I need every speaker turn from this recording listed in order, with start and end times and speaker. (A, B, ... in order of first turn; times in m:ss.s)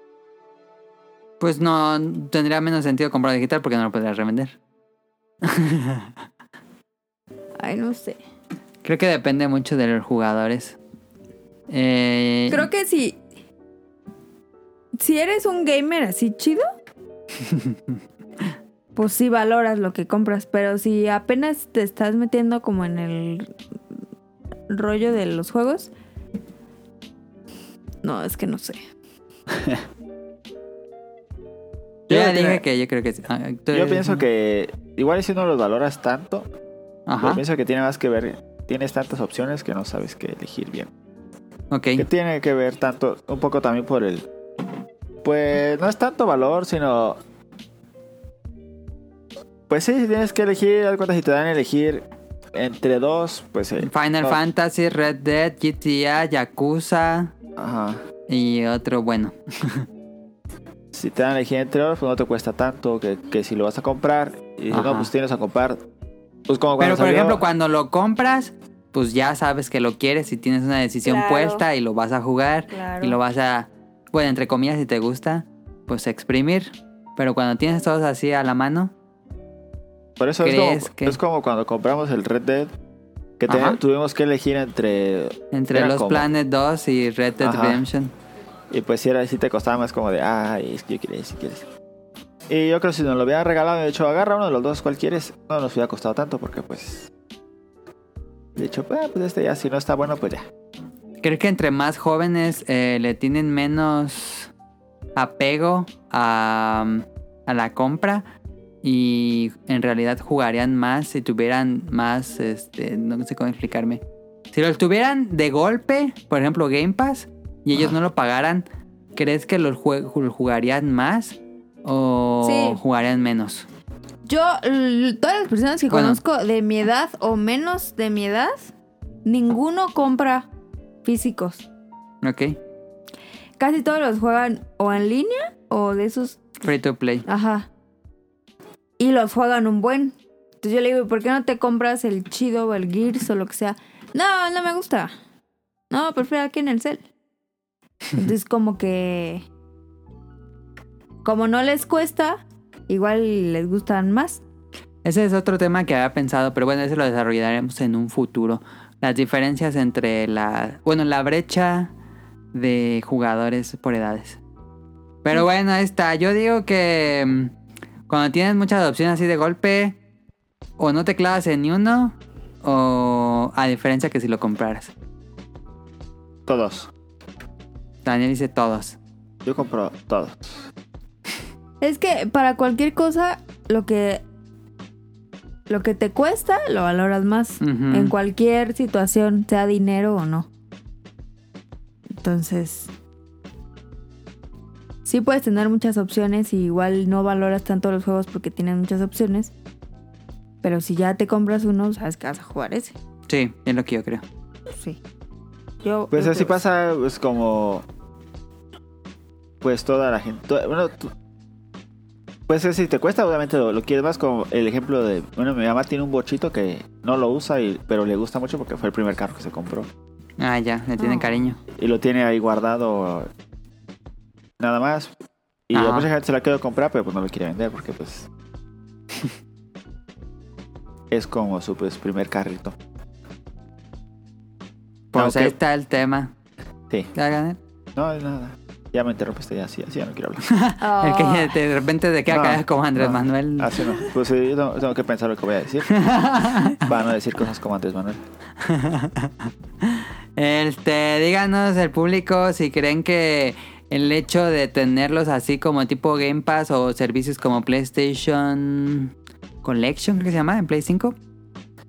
0:01.4-0:04.6 A
0:05.4-0:06.1 A
0:07.6-0:08.2 B
0:08.8-0:10.8 A
0:11.7-0:12.7 A
0:12.5-0:13.2 B
0:15.0-0:16.6 B
0:17.5-0:17.8 A
0:19.0-0:23.5 B
0:24.7-0:25.9 B
0:28.0-0:28.8 B
0:29.5-0:29.8 C
0:32.1-0:32.6 C
0:32.1-0:34.2 A
0:33.7-0:36.5 C
0:37.1-0:37.4 A
0:37.2-0:40.9 C
0:41.7-0:42.1 A
0:42.0-0:44.3 C
0:45.2-0:47.2 C
0:49.7-0:54.4 C
0:53.8-0:57.3 A
0:57.6-0:58.0 C
0:58.3-0:59.9 A
1:00.9-1:05.8 C
1:04.7-1:05.1 A
1:06.5-1:07.4 C
1:06.8-1:18.9 A
1:11.0-1:11.6 B
1:12.7-1:13.2 B
1:20.2-1:22.7 C
1:20.4-1:21.2 A
1:23.4-1:26.3 C
1:23.5-1:23.8 A
1:25.5-1:28.1 A
1:27.4-1:27.8 C
1:28.7-1:31.7 C
1:32.5-1:37.1 C
1:38.6-1:40.5 C
1:41.2-1:44.5 A
1:45.2-1:48.2 A
1:48.8-1:54.0 A
1:54.5-1:58.6 A
1:59.2-2:03.7 A
2:02.4-2:02.8 B
2:04.2-2:08.7 B
2:05.9-2:06.2 A
2:09.2-2:10.5 B
2:11.0-2:11.7 B
2:12.2-2:12.6 A
2:13.6-2:16.4 B
2:16.6-2:17.2 A
2:17.3-2:17.7 B
2:19.0-2:25.1 B
2:25.9-2:27.1 B
2:28.2-2:29.5 B
2:31.2-2:34.4 B
2:35.0-2:41.9 A
2:42.5-2:44.4 A
2:45.2-2:47.5 A
2:48.1-2:50.0 A
2:50.8-2:54.9 A
2:56.5-2:56.9 C
2:58.0-2:59.0 A
2:59.4-3:00.7 C
3:01.8-3:04.2 B
3:05.7-3:10.5 B
3:07.6-3:08.1 A
3:12.2-3:12.9 B
3:15.0-3:19.5 B
3:20.6-3:23.0 B
3:23.3-3:24.2 A
3:24.7-3:25.0 B
3:25.8-3:26.6 B
3:26.1-3:27.8 C
3:29.6-3:31.1 C
3:32.5-3:39.9 C
3:40.4-3:41.6 A
3:41.0-3:41.4 B
3:41.7-3:43.3 C
3:44.6-3:45.1 C
3:45.7-3:48.3 C
3:45.7-3:46.1 A
3:51.1-3:52.8 C
3:55.1-3:56.3 A
3:55.2-3:55.6 C
3:57.2-3:57.6 A
3:58.0-4:00.4 C
4:00.5-4:03.9 A
4:00.8-4:01.6 B
4:02.3-4:05.9 C
4:05.9-4:06.8 A
4:06.8-4:08.2 C
4:08.6-4:19.1 A
4:19.6-4:21.2 A